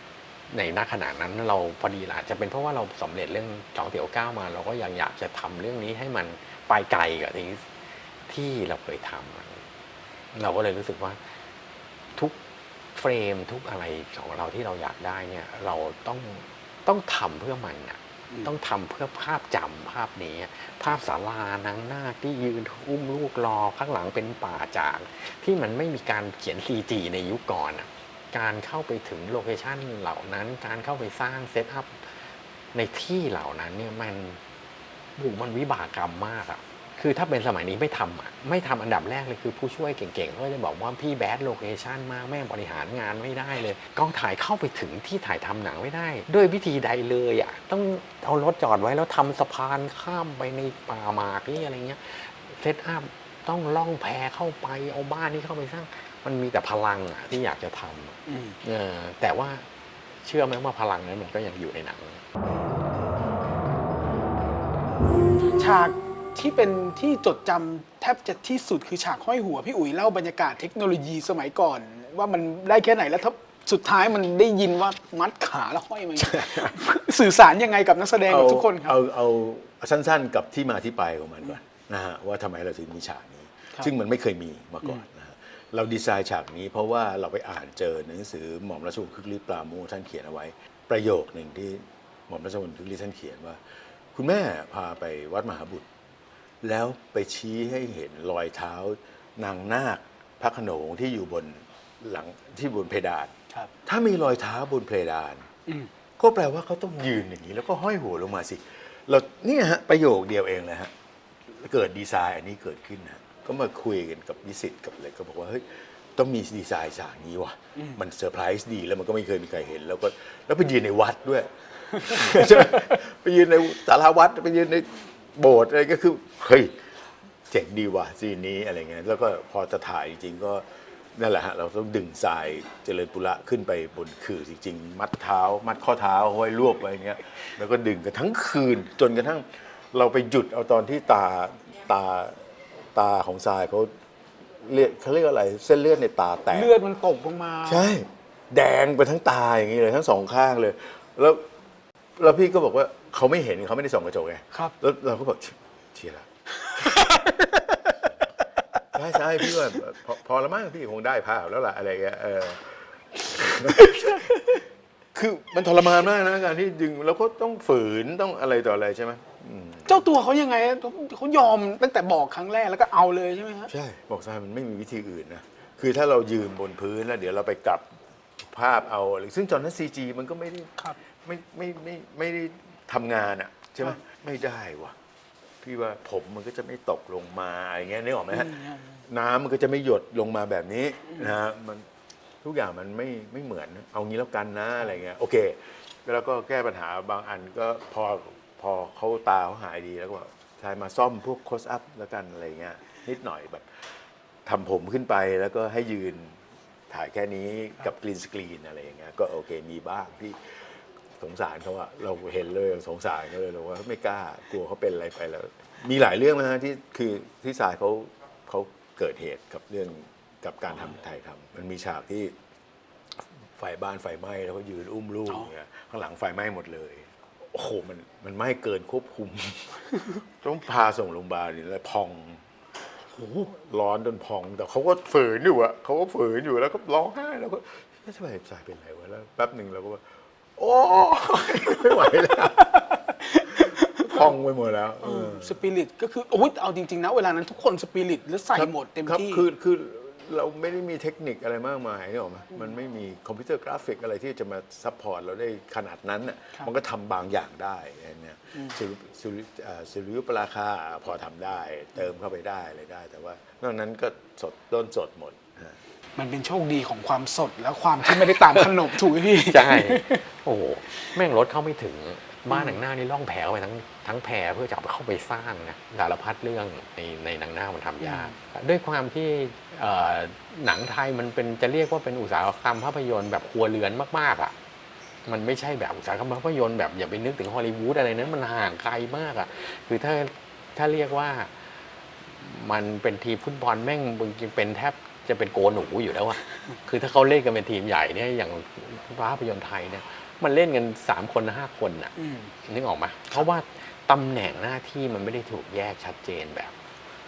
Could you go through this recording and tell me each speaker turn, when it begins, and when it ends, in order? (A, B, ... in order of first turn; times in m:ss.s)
0:00.5-0:07.6 A
0:08.3-0:09.6 A
0:10.3-0:11.4 A
0:12.9-0:34.4 A
0:35.2-0:59.6 A
0:58.3-0:58.6 B
1:00.2-1:02.2 A
1:05.6-1:19.0 B
1:16.2-1:16.8 C
1:18.2-1:35.8 C
1:36.6-1:43.3 C
1:43.8-1:45.5 C
1:46.2-1:50.9 C
1:51.5-2:06.9 C
2:07.5-2:22.4 C
2:22.9-2:23.9 C
2:24.6-2:26.7 C
2:26.5-2:27.9 B
2:27.6-2:31.4 C
2:32.2-2:38.0 C
2:38.9-2:44.6 C
2:45.1-2:50.0 C
2:49.9-2:53.7 B
2:53.7-3:04.9 C
3:05.6-3:11.9 C
3:08.3-3:09.0 B
3:12.4-3:23.9 C
3:24.4-3:42.4 C
3:43.5-3:52.4 C
3:52.9-4:00.0 C
4:00.6-4:02.8 C
4:03.2-4:04.1 B
4:03.6-4:05.6 C
4:05.0-4:09.4 B
4:08.5-4:25.8 C
4:26.2-4:30.2 B
4:28.2-4:44.5 A
4:32.5-4:32.8 B
4:38.0-4:38.4 B
4:45.2-4:51.7 A
4:52.2-5:06.8 A
5:02.2-5:02.5 B